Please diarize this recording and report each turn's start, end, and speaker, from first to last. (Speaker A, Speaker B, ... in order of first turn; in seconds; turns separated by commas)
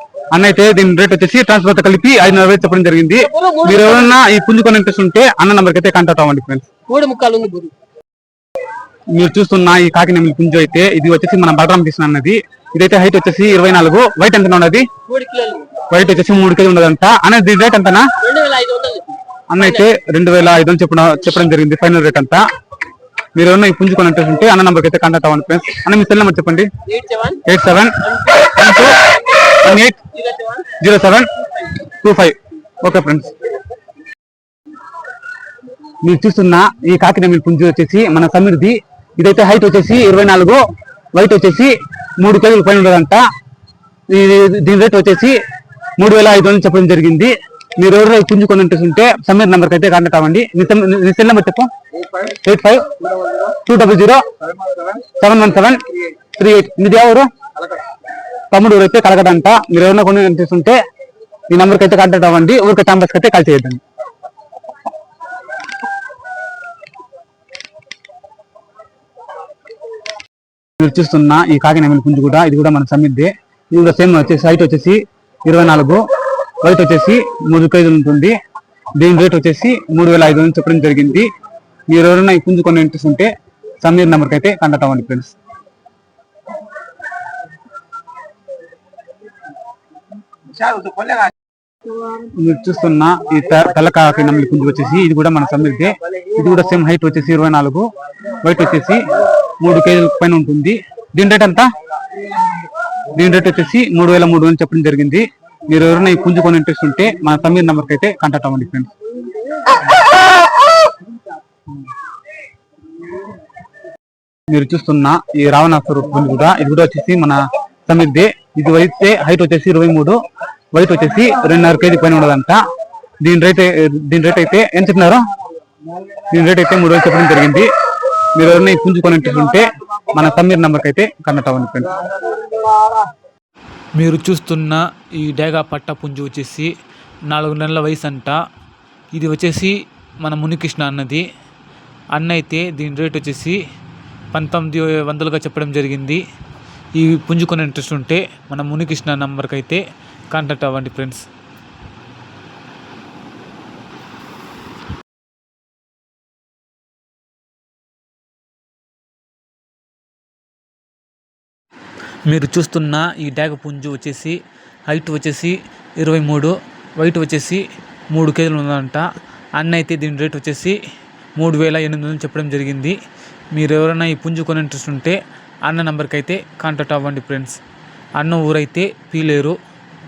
Speaker A: 0.3-6.7, Speaker B: 3.3-4.1, Speaker B: 6.9-7.7, Speaker A: 9.1-14.9, Speaker B: 15.1-15.8, Speaker A: 15.9-18.1, Speaker B: 18.2-19.2, Speaker A: 19.5-22.4, Speaker A: 23.3-26.7, Speaker B: 26.9-27.4, Speaker A: 27.4-30.0, Speaker B: 30.1-30.6, Speaker A: 30.8-31.3, Speaker A: 31.8-33.3, Speaker A: 36.0-40.6, Speaker A: 41.1-43.2, Speaker A: 44.1-45.4, Speaker A: 46.0-53.0, Speaker A: 53.6-54.2, Speaker A: 55.2-55.8, Speaker A: 56.3-57.3, Speaker A: 58.5-60.8, Speaker A: 61.5-63.8, Speaker A: 70.8-76.0, Speaker A: 76.6-78.3, Speaker A: 79.0-81.3, Speaker A: 81.9-83.3, Speaker A: 83.8-85.3, Speaker A: 92.2-97.9, Speaker A: 98.4-101.7, Speaker A: 103.1-108.9, Speaker A: 114.5-120.2, Speaker A: 120.7-122.6, Speaker A: 123.2-125.2, Speaker A: 126.2-127.7, Speaker A: 128.3-132.0, Speaker C: 133.9-136.7, Speaker C: 137.3-138.4, Speaker C: 139.1-141.2, Speaker C: 142.1-143.6, Speaker C: 144.3-146.2, Speaker C: 146.9-151.2, Speaker C: 162.2-164.4, Speaker C: 164.9-169.0, Speaker C: 169.6-170.8, Speaker C: 171.4-172.9, Speaker C: 173.5-177.6, Speaker C: 178.2-179.6